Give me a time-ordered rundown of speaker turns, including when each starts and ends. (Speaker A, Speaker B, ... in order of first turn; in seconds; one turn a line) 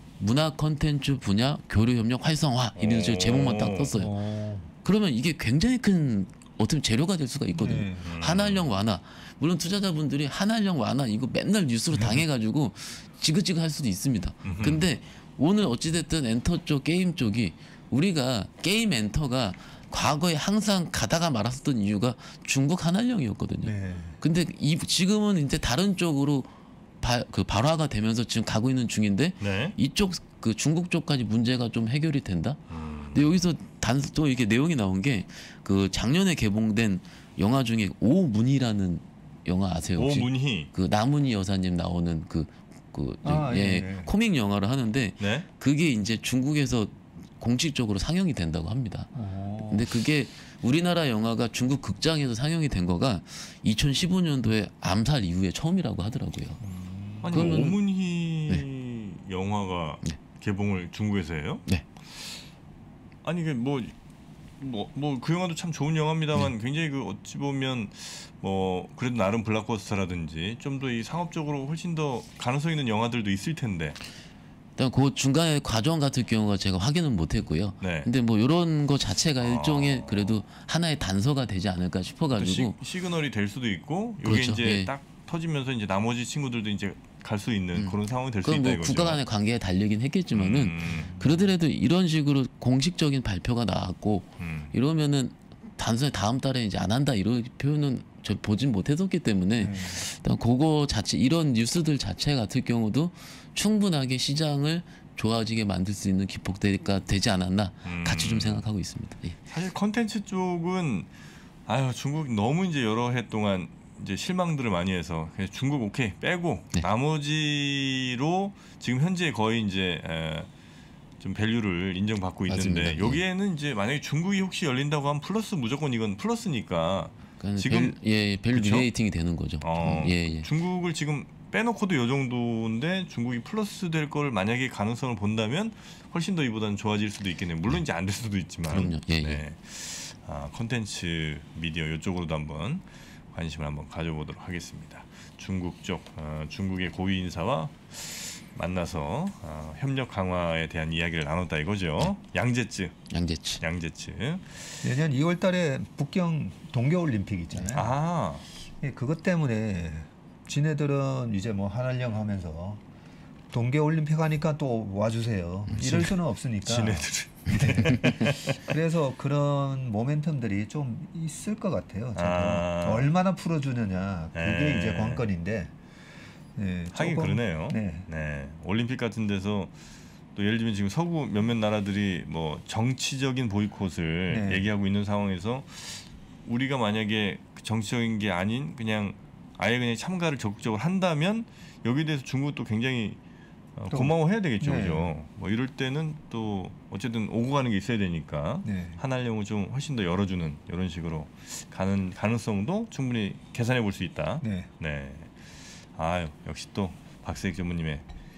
Speaker A: 0.2-4.1
Speaker B: 2.8-4.0
Speaker C: 3.9-4.7
Speaker A: 4.8-32.6
Speaker C: 7.6-8.1
Speaker B: 8.0-8.7
Speaker B: 14.4-14.9
Speaker C: 23.6-24.2
Speaker B: 29.4-29.8
Speaker B: 32.7-33.3
Speaker A: 33.1-49.1
Speaker B: 40.0-40.7
Speaker C: 43.2-44.1
Speaker B: 45.2-45.5
Speaker C: 49.1-49.9
Speaker A: 49.6-56.6
Speaker C: 56.6-57.7
Speaker B: 57.2-61.7
Speaker A: 57.3-57.8
Speaker B: 63.2-63.9
Speaker B: 64.6-74.0
Speaker A: 74.8-82.8
Speaker B: 77.8-78.1
Speaker B: 79.4-80.4
Speaker B: 82.3-89.2
Speaker A: 84.2-84.9
Speaker A: 87.8-109.4
Speaker B: 90.3-91.1
Speaker C: 90.8-91.5
Speaker B: 94.4-94.7
Speaker C: 99.6-100.0
Speaker B: 107.8-108.7
Speaker B: 109.5-111.1
Speaker B: 111.7-120.5
Speaker B: 121.2-128.0
Speaker A: 122.5-123.2
Speaker A: 127.4-130.5
Speaker B: 128.5-128.9
Speaker B: 129.6-153.0
Speaker A: 138.7-139.4
Speaker A: 153.1-153.6
Speaker B: 153.6-154.8
Speaker C: 154.8-158.0
Speaker B: 157.7-158.4
Speaker C: 158.8-162.8
Speaker C: 163.5-175.7
Speaker B: 165.8-168.6
Speaker B: 172.1-173.1
Speaker B: 174.3-175.3
Speaker C: 176.6-178.1
Speaker B: 176.9-179.7
Speaker B: 180.4-193.2
Speaker C: 184.3-184.7
Speaker B: 193.8-205.3
Speaker C: 193.9-195.1
Speaker C: 198.6-199.0
Speaker C: 204.4-204.7
Speaker B: 205.9-208.0